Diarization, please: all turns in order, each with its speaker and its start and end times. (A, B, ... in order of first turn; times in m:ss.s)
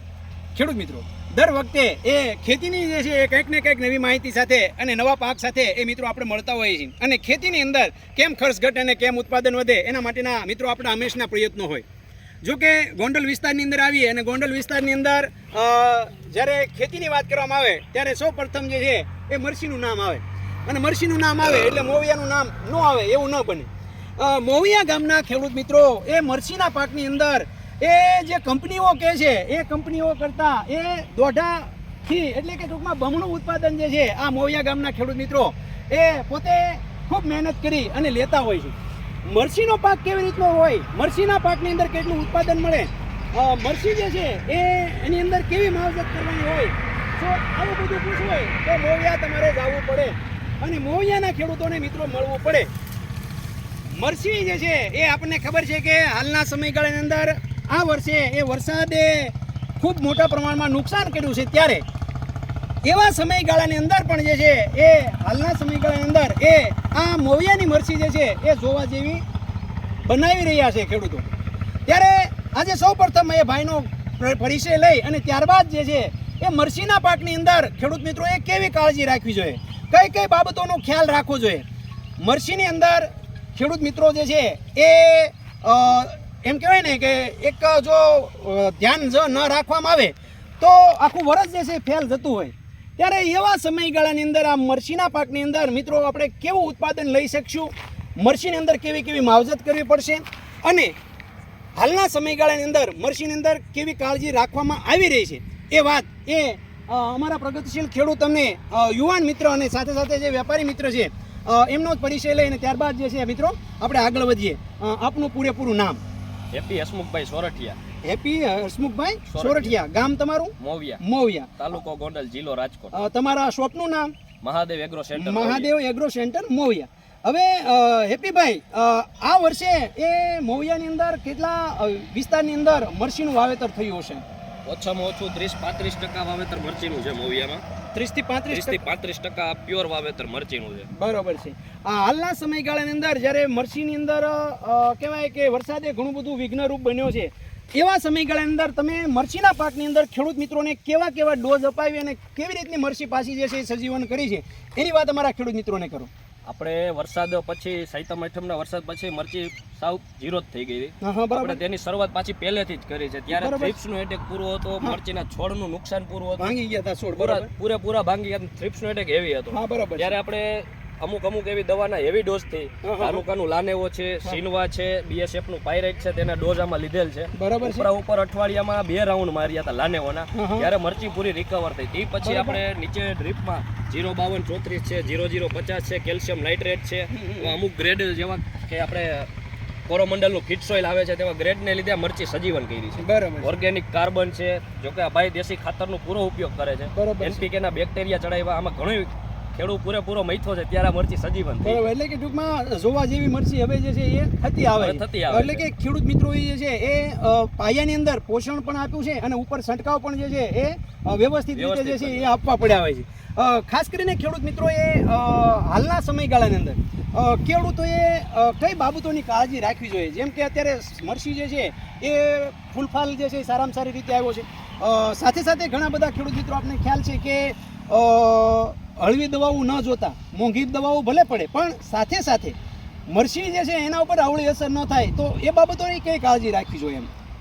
0:00.5-0:11.8 A
0:12.4-0:38.7 A
0:39.3-0:52.7 A
0:53.9-1:01.8 A
1:02.8-1:09.2 A
1:10.0-1:11.3 A
1:11.9-1:21.6 A
1:22.2-1:40.9 A
1:41.8-1:56.0 A
1:56.5-1:57.8 B
1:58.0-2:01.7 A
1:59.3-1:59.8 B
2:00.6-2:01.0 B
2:01.6-2:03.0 B
2:02.9-2:04.1 A
2:04.4-2:05.7 B
2:05.1-2:14.2 A
2:14.6-2:17.6 B
2:17.9-2:18.8 A
2:18.5-2:20.9 B
2:20.9-2:36.1 A
2:36.4-2:46.5 B
2:41.0-2:41.6 A
2:43.3-2:43.8 A
2:46.4-2:47.5 A
2:47.2-3:09.3 B
2:49.5-2:50.2 A
2:52.8-2:53.2 A
2:57.4-2:57.9 A
3:00.3-3:00.7 A
3:02.2-3:02.6 A
3:07.1-3:07.6 A
3:09.9-3:21.8 B
3:13.0-3:13.5 A
3:16.9-3:17.4 A
3:21.6-3:52.6 A
3:24.8-3:25.6 B
3:31.5-3:32.3 B
3:53.1-3:57.1 A